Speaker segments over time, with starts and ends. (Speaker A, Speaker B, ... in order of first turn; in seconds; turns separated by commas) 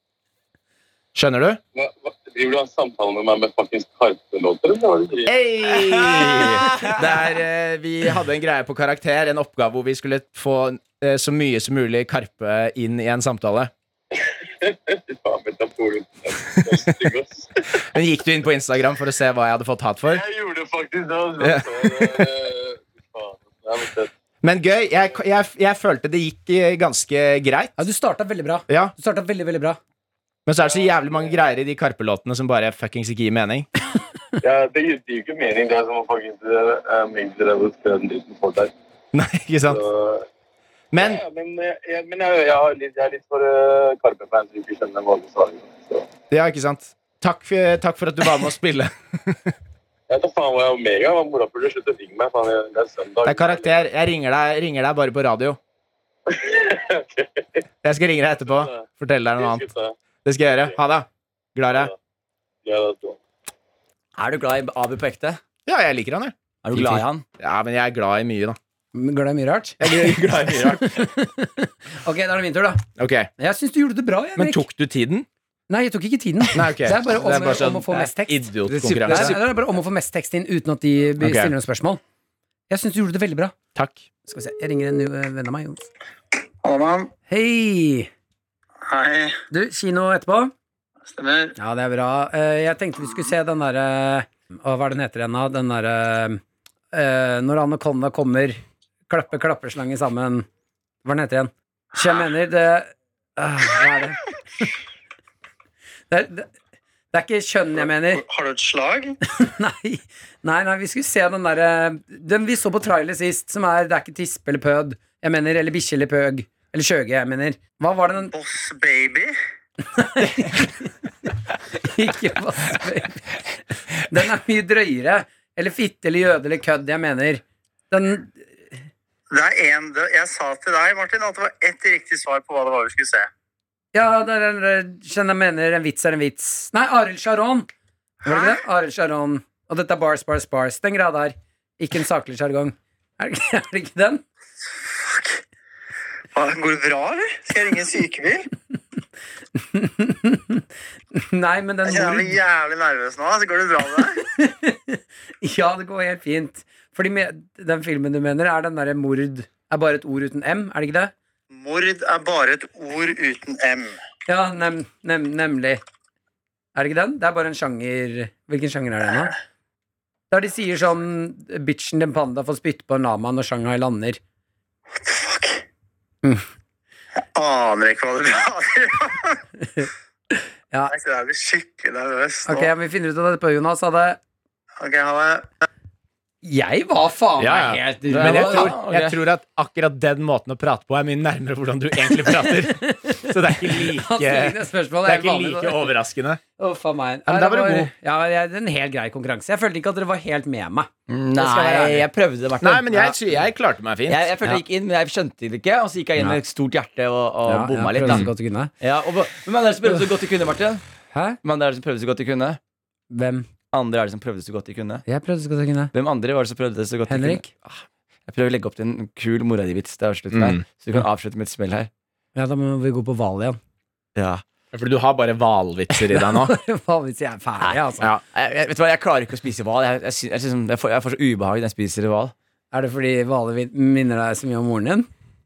Speaker A: 1.1-1.6, Speaker B: 1.7-5.3, Speaker A: 5.3-13.7, Speaker C: 5.7-6.9, Speaker B: 14.1-17.8, Speaker A: 17.8-20.2, Speaker B: 20.1-24.1, Speaker A: 21.4-22.3, Speaker A: 24.4-27.7, Speaker D: 27.8-29.8, Speaker A: 28.7-28.9, Speaker A: 30.4-33.7, Speaker B: 30.6-31.4, Speaker B: 34.4-38.7, Speaker A: 39.1-39.8, Speaker B: 39.6-40.2, Speaker A: 40.9-41.2, Speaker B: 41.0-46.1, Speaker A: 46.3-49.5, Speaker B: 50.1-53.7, Speaker A: 53.2-55.6, Speaker B: 56.3-57.6, Speaker A: 57.8-59.7, Speaker B: 58.5-58.8, Speaker B: 59.3-59.9, Speaker A: 60.2-61.9, Speaker B: 60.5-60.7, Speaker B: 61.7-61.9, Speaker B: 62.6-63.2, Speaker C: 64.2-65.4, Speaker A: 65.7-66.3, Speaker C: 66.6-67.2, Speaker D: 66.7-67.0, Speaker A: 67.4-68.6, Speaker D: 68.9-72.8, Speaker A: 69.8-71.3, Speaker A: 73.0-73.3, Speaker D: 73.4-74.6, Speaker A: 74.3-75.3, Speaker D: 75.7-78.5, Speaker A: 76.5-79.3, Speaker C: 78.7-79.4, Speaker D: 79.0-82.0, Speaker A: 81.2-81.5, Speaker D: 82.7-83.5, Speaker A: 83.7-84.0, Speaker D: 84.3-85.8, Speaker E: 86.6-87.1, Speaker D: 87.3-88.1, Speaker E: 88.8-89.4, Speaker D: 89.5-90.5, Speaker E: 91.1-91.5, Speaker D: 91.5-100.5, Speaker D: 101.0-104.7, Speaker D: 106.1-106.5, Speaker D: 107.1-108.2, Speaker E: 108.0-109.2, Speaker D: 109.2-118.3, Speaker E: 118.3-119.3, Speaker D: 120.0-120.9, Speaker D: 121.7-123.3, Speaker D: 124.0-128.4, Speaker E: 129.3-133.3, Speaker D: 133.9-137.7, Speaker D: 138.2-144.2, Speaker E: 138.2-138.5, Speaker E: 144.8-145.3, Speaker E: 146.3-148.5, Speaker D: 149.6-150.6, Speaker D: 151.1-152.4, Speaker E: 151.8-154.2, Speaker D: 154.2-161.1, Speaker E: 161.5-164.0, Speaker D: 164.3-165.8, Speaker D: 166.7-169.3, Speaker D: 170.3-174.2, Speaker E: 174.9-175.6, Speaker E: 177.3-179.4, Speaker D: 180.7-180.9, Speaker E: 180.9-182.7, Speaker D: 182.4-184.2, Speaker E: 184.8-185.5, Speaker D: 186.4-188.7, Speaker A: 187.4-196.4, Speaker C: 188.1-189.1, Speaker D: 192.2-195.9, Speaker D: 196.6-200.9, Speaker A: 197.2-197.9, Speaker C: 201.1-203.2, Speaker A: 201.3-202.1, Speaker A: 202.6-204.3, Speaker C: 204.1-208.3, Speaker D: 207.5-208.7, Speaker C: 208.8-210.8, Speaker D: 211.1-211.4, Speaker C: 211.4-212.6, Speaker D: 213.1-213.5, Speaker C: 213.7-215.0, Speaker D: 215.1-215.9, Speaker C: 215.9-217.7, Speaker D: 217.1-217.5, Speaker C: 218.3-221.9, Speaker A: 220.3-220.6, Speaker D: 222.3-223.6, Speaker C: 224.2-224.4, Speaker A: 224.7-226.5, Speaker D: 225.9-228.1, Speaker C: 228.3-232.3, Speaker D: 232.7-235.1